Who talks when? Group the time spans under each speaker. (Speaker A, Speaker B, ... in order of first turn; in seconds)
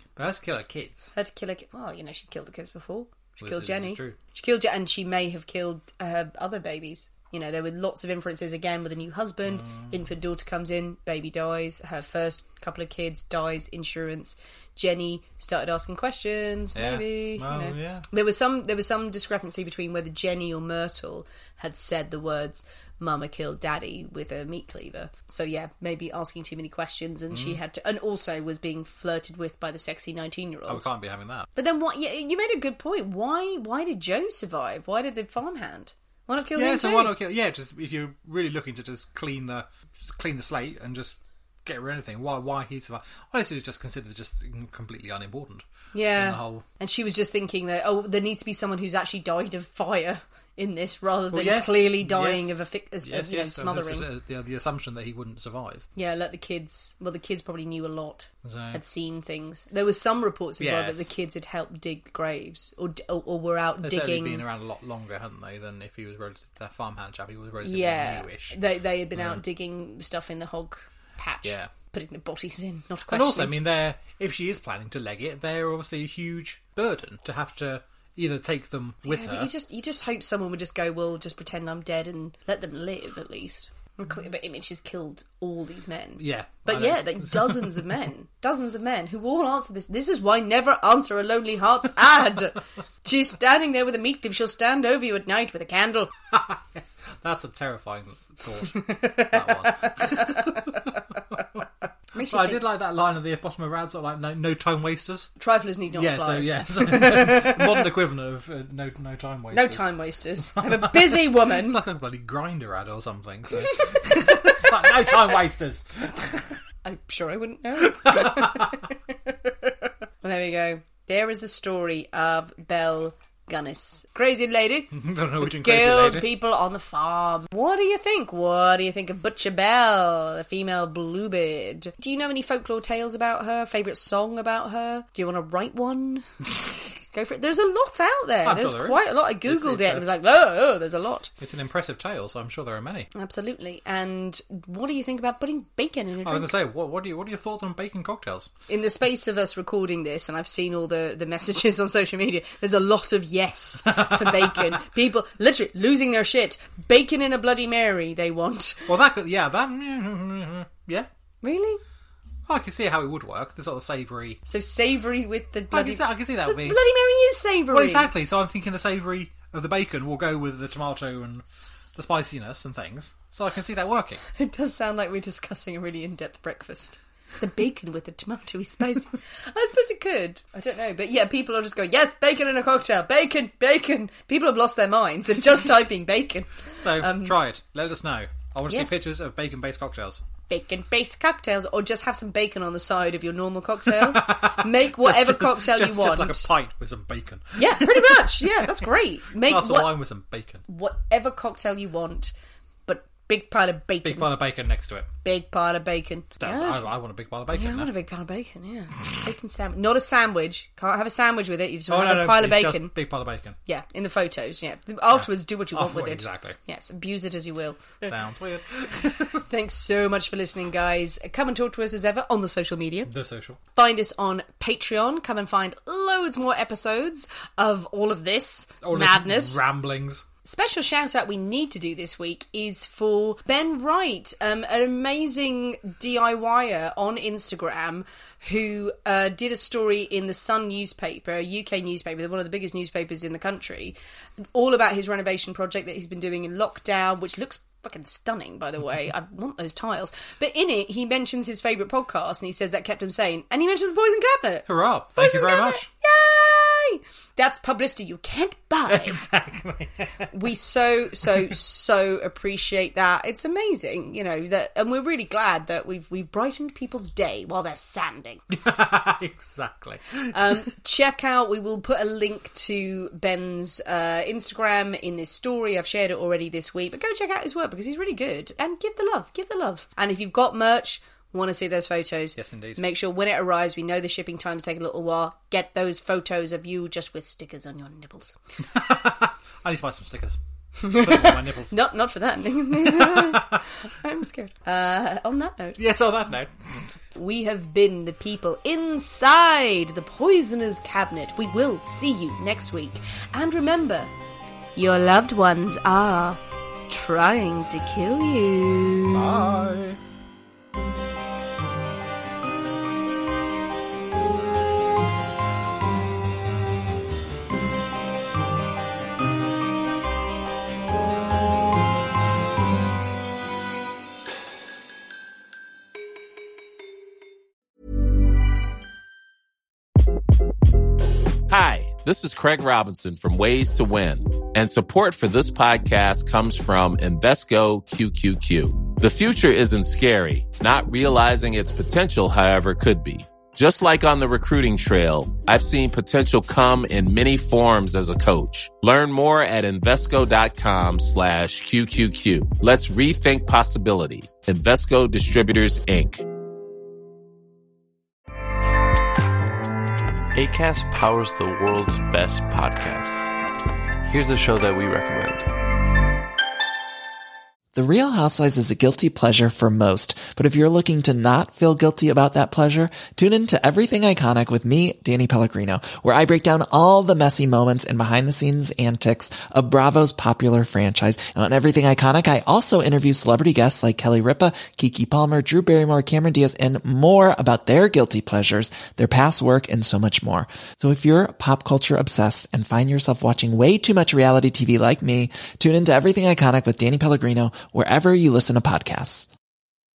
Speaker A: 0.2-1.1, 3.4-4.2, 9.5-9.9, 16.8-18.1, 27.3-27.6, 30.7-31.5, 36.5-46.7, 51.3-55.9, 58.4-58.8, 60.6-61.1, 63.8-68.6, 69.2-69.4, 71.4-71.7, 73.1-79.5, 86.2-88.0, 96.3-101.6, 102.2-105.4, 105.9-110.0, 110.6-116.6, 118.0-118.8, 124.9-126.3, 138.4-140.1, 141.4-143.1, 146.2-148.5, 153.9-154.8, 158.9-161.1, 162.5-164.4, 165.7-166.8, 167.7-171.4, 171.9-174.2, 186.8-190.2, 193.9-198.9, 199.4-200.7, 204.0-205.1, 206.4-207.9, 211.9-213.6, 215.1-216.6, 218.1-219.4, 223.1-223.6, 228.8-230.2, 254.7-255.9, 258.9-260.3, 268.5-270.4, 282.4-282.8, 288.7-291.8, 292.8-293.6, 295.8-297.0, 309.1-310.0
Speaker B: 1.1-30.9, 31.6-37.1, 45.9-54.1, 56.0-64.5, 67.6-73.5, 79.0-96.1, 98.9-100.8, 102.2-102.6, 105.4-107.9, 109.5-111.8, 113.7-114.7, 116.8-119.7, 120.2-136.3, 137.1-141.3, 143.2-146.5, 148.7-158.9, 161.4-161.8, 164.5-168.1, 174.3-187.4, 188.7-189.0, 190.5-196.5, 197.6-200.0, 200.7-202.3, 202.9-204.3, 205.2-206.9, 207.5-212.9, 213.7-218.1, 219.3-223.1, 223.8-229.6, 230.4-244.0, 244.5-259.2, 260.3-268.4, 270.3-288.4, 290.8-295.8, 297.1-304.1, 304.8-309.5
Speaker C: 331.5-356.2
Speaker D: 360.3-363.4, 364.1-365.5
Speaker E: 367.8-399.3